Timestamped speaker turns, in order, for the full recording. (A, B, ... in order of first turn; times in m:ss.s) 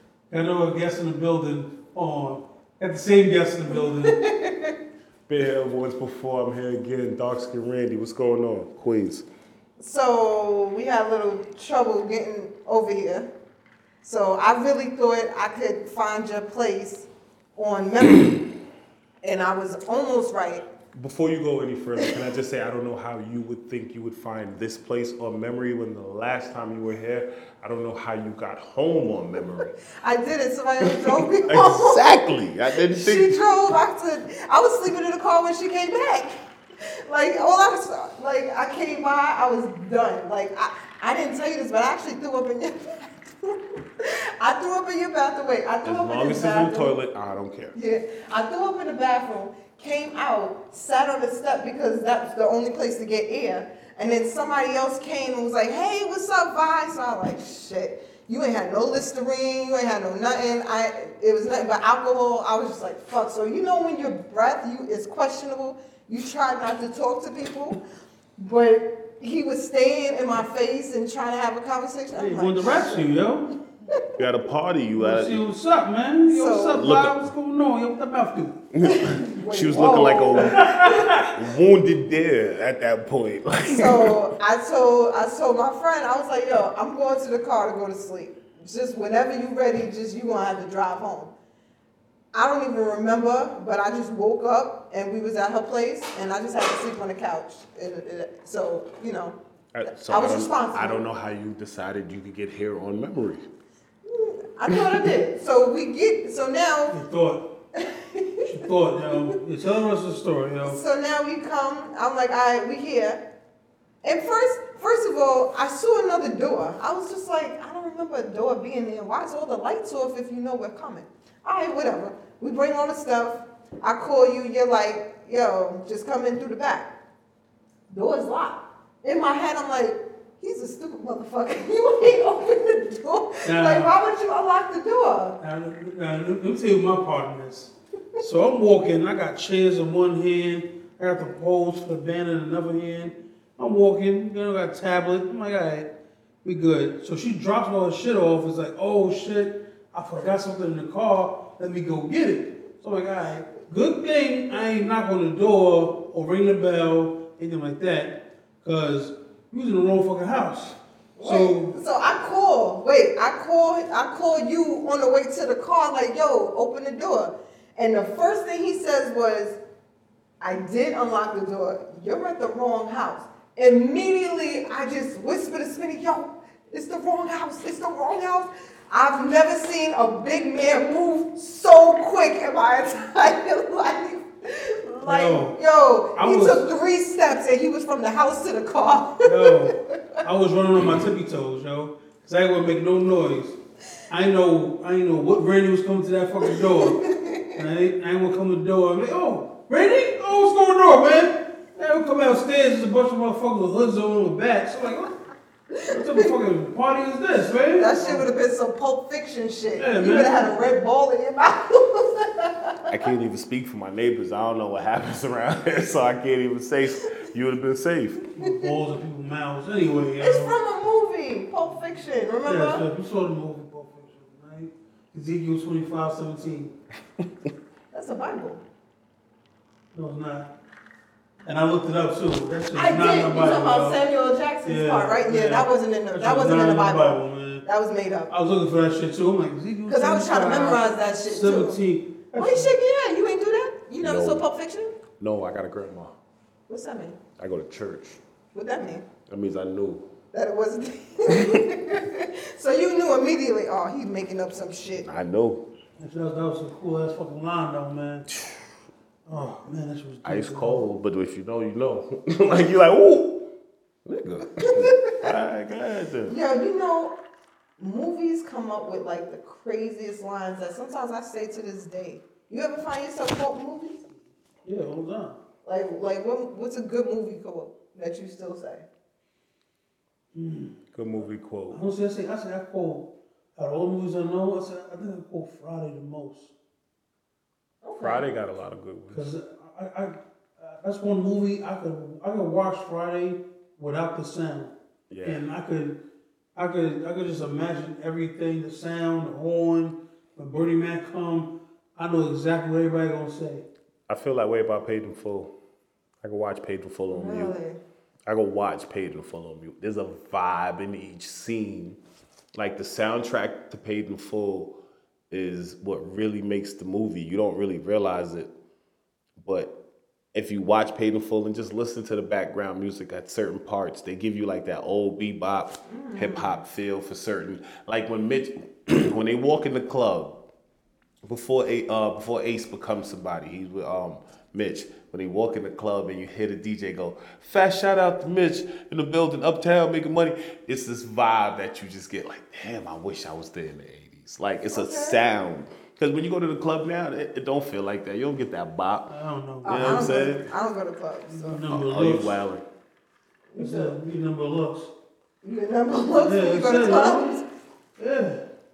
0:00.3-0:04.2 A
0:03.7-0:04.7 B
0:05.3-0:09.2 C
0:09.8-0:13.3 B
0:14.0-0:18.5 B
0:19.2-0:20.6 B
0:20.9-0:29.7 C
0:29.9-0:32.1 B
0:30.8-0:33.4 C
0:32.8-0:36.4 B
0:37.1-0:46.9 B
0:45.8-0:47.7 C
0:47.7-1:07.8 B
1:08.4-1:13.1 B
1:12.1-1:13.5 A
1:14.2-1:15.4 C
1:15.0-1:18.6 A
1:16.3-1:16.8 B
1:16.7-1:17.2 C
1:18.7-1:20.6 C
1:18.8-1:21.2 B
1:20.4-1:21.3 A
1:21.2-1:24.1 C
1:23.6-1:31.3 B
1:32.3-1:41.0 B
1:39.7-1:43.4 C
1:44.0-1:46.9 B
1:44.7-1:45.0 C
1:46.9-1:47.5 A
1:47.7-1:48.5 B
1:48.4-1:50.8 A
1:50.6-1:53.2 B
1:54.0-2:06.9 B
2:07.9-2:15.4 B
2:13.4-2:13.9 A
2:15.4-2:25.9 A
2:26.4-2:41.7 A
2:41.2-2:49.6 B
2:50.4-3:10.2 B
3:05.0-3:05.6 A
3:06.2-3:06.6 A
3:09.2-3:13.6 A
3:14.1-3:17.0 A
3:16.7-3:17.5 B
3:17.5-3:25.1 A
3:25.7-3:26.3 B
3:25.9-3:28.2 A
3:27.8-3:33.0 B
3:29.8-3:30.5 A
3:32.9-3:38.2 C
3:38.4-3:40.5 A
3:38.4-3:38.7 B
3:40.2-3:42.8 B
3:42.4-3:46.8 A
3:47.9-3:48.6 B
3:49.9-3:50.5 A
3:51.4-3:54.0 A
3:52.7-3:58.3 B
3:54.6-3:57.6 A
3:58.3-4:02.7 A
3:59.9-4:01.8 B
4:02.4-4:05.0 B
4:04.0-4:04.4 C
4:05.2-4:06.2 C
4:06.7-4:07.2 B
4:07.4-4:08.2 C
4:08.5-4:09.0 B
4:09.3-4:10.0 C
4:10.3-4:15.1 B
4:11.3-4:11.6 C
4:15.0-4:15.7 C
4:16.0-4:18.3 A
4:18.3-4:18.6 C
4:19.3-4:20.8 A
4:20.2-4:23.5 C
4:24.0-4:26.4 C
4:24.6-4:25.3 B
4:26.3-4:27.1 B
4:27.8-4:34.0 B
4:34.6-4:35.4 A
4:35.6-4:38.8 B
4:40.3-4:40.8 A
4:40.9-4:41.8 C
4:41.7-4:46.5 A
4:47.8-4:48.2 B
4:48.0-4:49.3 C
4:49.1-4:56.0 A
4:55.1-4:55.4 C
4:56.6-5:03.6 A
5:04.1-5:05.5 C
5:06.2-5:07.5 C
5:07.1-5:07.8 B
5:08.2-5:12.0 C
5:12.5-5:14.8 C
5:15.3-5:18.5 C
5:19.4-5:19.8 C
5:20.3-5:30.4 C
5:25.9-5:26.6 B
5:31.2-5:49.1 C
5:44.7-5:45.2 B
5:49.1-5:50.2 A
5:49.6-5:50.5 C
5:49.6-5:51.6 B
5:51.3-5:52.3 A
5:51.7-5:52.6 C
5:53.5-5:53.9 B
5:53.6-5:54.9 A
5:55.4-5:57.4 B
5:56.2-5:57.3 A
5:58.0-5:58.4 A